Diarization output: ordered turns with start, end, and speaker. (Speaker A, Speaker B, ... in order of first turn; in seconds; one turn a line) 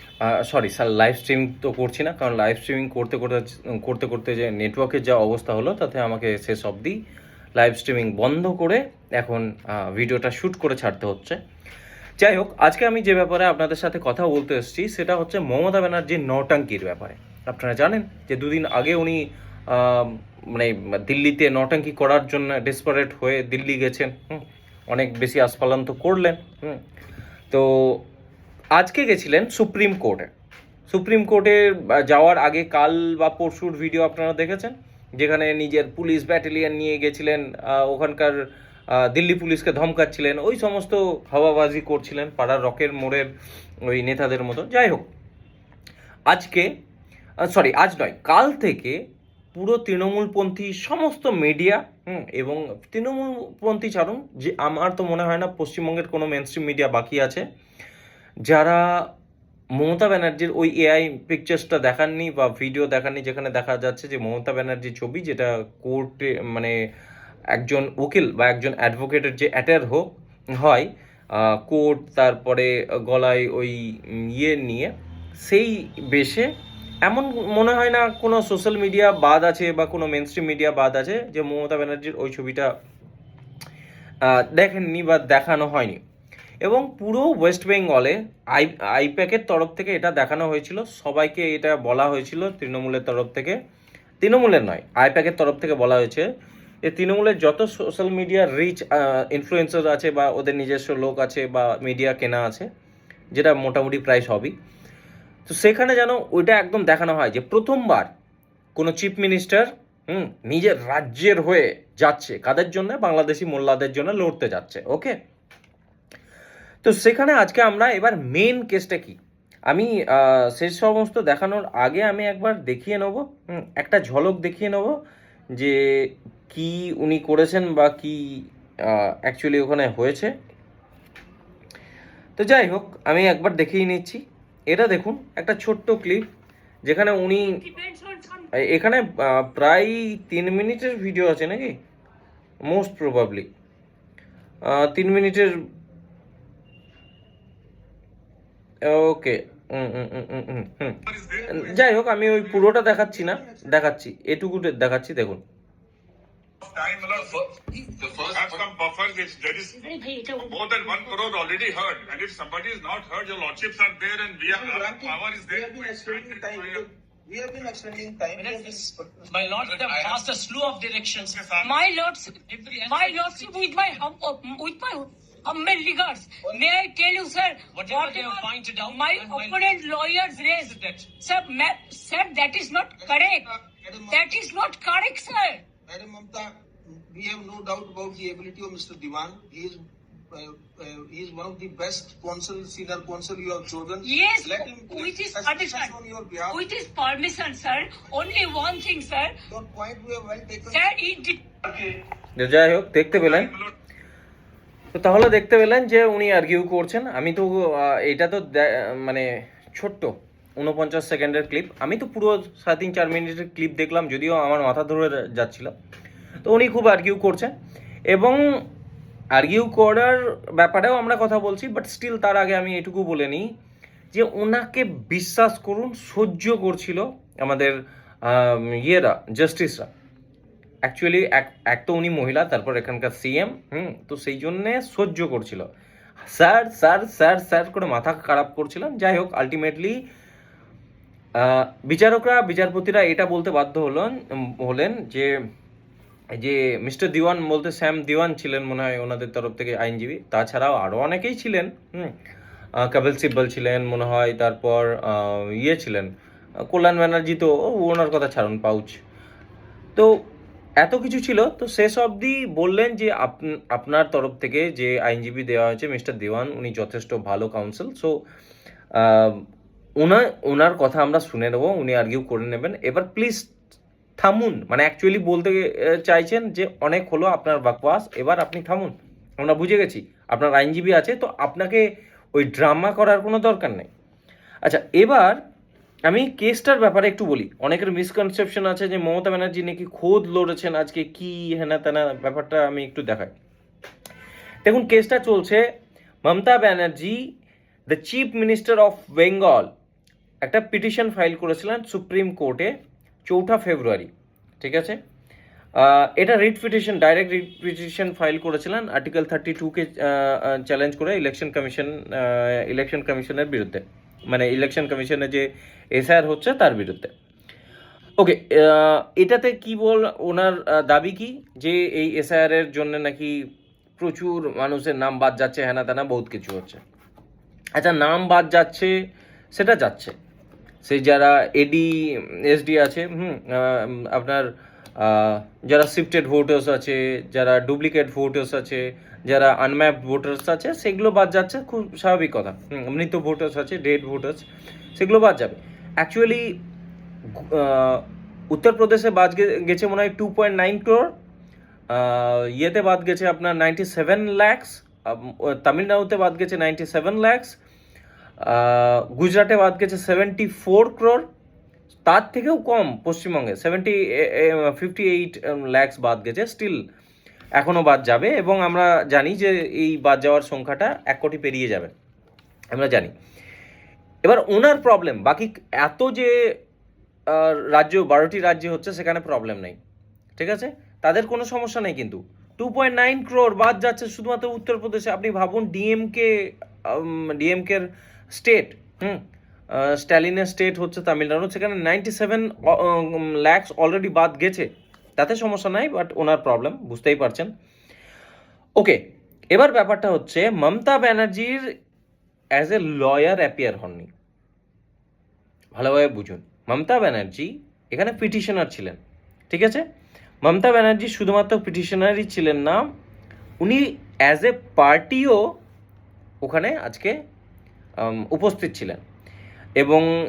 Speaker A: 0.2-7.0
Speaker A: 7.6-11.4
Speaker A: 12.2-26.8
Speaker A: 27.5-28.1
Speaker A: 28.7-30.3
Speaker A: 30.9-43.3
Speaker A: 43.9-45.1
Speaker A: 46.3-46.7
Speaker A: 47.4-49.0
Speaker A: 49.5-57.5
Speaker A: 58.5-59.1
Speaker A: 59.8-66.8
Speaker A: 67.5-76.5
Speaker A: 77.0-82.7
Speaker A: 84.2-86.0
Speaker A: 86.6-93.6
Speaker A: 94.2-96.3
Speaker A: 96.8-102.7
Speaker A: 103.3-104.5
Speaker A: 105.5-108.1
Speaker A: 108.8-115.2
Speaker A: 116.8-125.0
Speaker A: 125.5-130.3
Speaker A: 132.4-136.3
Speaker A: 136.8-137.6
Speaker B: 137.5-138.5
Speaker A: 138.5-141.8
Speaker A: 142.7-143.5
Speaker A: 144.7-145.5
Speaker A: 148.8-155.4
Speaker C: 151.1-151.4
Speaker D: 151.3-151.7
Speaker D: 153.2-153.7
Speaker C: 156.6-157.5
Speaker D: 157.8-158.5
Speaker C: 158.1-159.8
Speaker B: 159.8-161.1
Speaker C: 160.4-166.8
Speaker D: 164.5-169.3
Speaker E: 168.4-171.5
Speaker C: 169.7-170.0
Speaker C: 171.3-171.7
Speaker B: 171.6-183.5
Speaker E: 172.5-173.7
Speaker E: 177.7-179.8
Speaker E: 180.6-181.1
Speaker D: 183.0-184.3
Speaker B: 184.1-185.6
Speaker D: 185.9-196.6
Speaker B: 194.1-195.9
Speaker B: 196.5-199.4
Speaker D: 199.5-201.0
Speaker B: 200.7-201.4
Speaker A: 202.4-203.6
Speaker A: 204.9-215.7
Speaker A: 216.4-217.5
Speaker A: 218.1-218.4
Speaker A: 219.3-223.5
Speaker A: 224.1-229.9
Speaker A: 230.8-235.7
Speaker A: 236.2-240.0
Speaker A: 241.4-245.4
Speaker A: 246.3-252.2
Speaker A: 252.8-256.1
Speaker A: 256.7-259.0
Speaker A: 260.8-268.2
Speaker A: 268.9-269.4
Speaker A: 270.0-273.5
Speaker A: 274.2-283.9
Speaker A: 284.6-285.4
Speaker A: 286.1-293.3
Speaker A: 294.6-295.7
Speaker A: 296.2-297.3
Speaker A: 297.9-299.7
Speaker A: 300.4-302.7
Speaker A: 303.3-305.0
Speaker A: 305.8-317.1
Speaker A: 318.2-326.8
Speaker A: 327.8-328.9
Speaker A: 329.5-330.1
Speaker A: 330.8-346.6
Speaker A: 347.3-351.1
Speaker A: 351.9-357.6
Speaker A: 358.4-361.3
Speaker A: 362.1-366.8
Speaker A: 367.6-371.9
Speaker A: 372.7-373.1
Speaker A: 374.2-376.6
Speaker A: 377.3-379.8
Speaker A: 380.4-397.5
Speaker A: 398.8-401.7
Speaker A: 402.6-404.1
Speaker A: 405.8-409.0
Speaker A: 409.5-409.8
Speaker A: 410.4-412.9
Speaker A: 413.6-415.4
Speaker A: 416.4-417.2
Speaker A: 418.0-419.0
Speaker A: 419.8-420.1